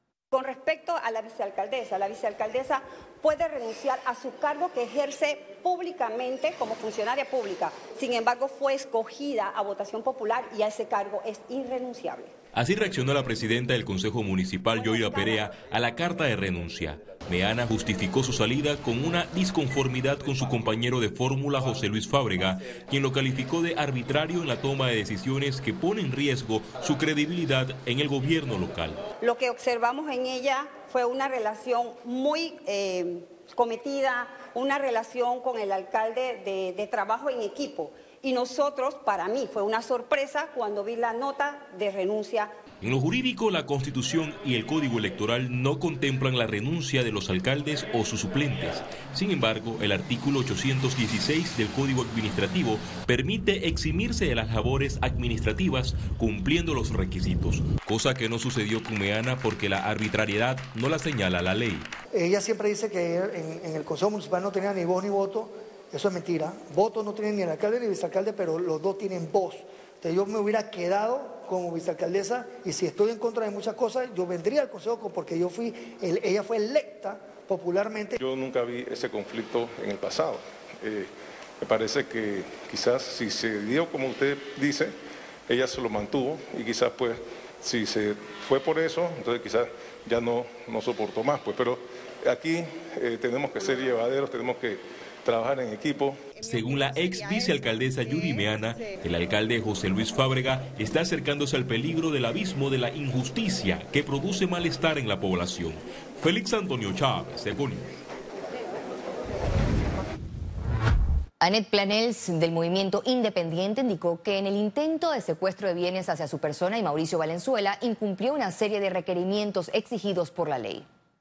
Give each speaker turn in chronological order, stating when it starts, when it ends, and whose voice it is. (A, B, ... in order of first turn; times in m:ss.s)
0:00.3-0:12.3 A
0:12.5-0:29.0 B
0:29.2-0:42.5 A
0:42.8-1:01.9 B
1:02.1-1:18.2 C
1:18.2-1:24.9 D
1:25.5-1:36.3 D
1:36.4-1:47.9 B
1:51.4-2:00.8 E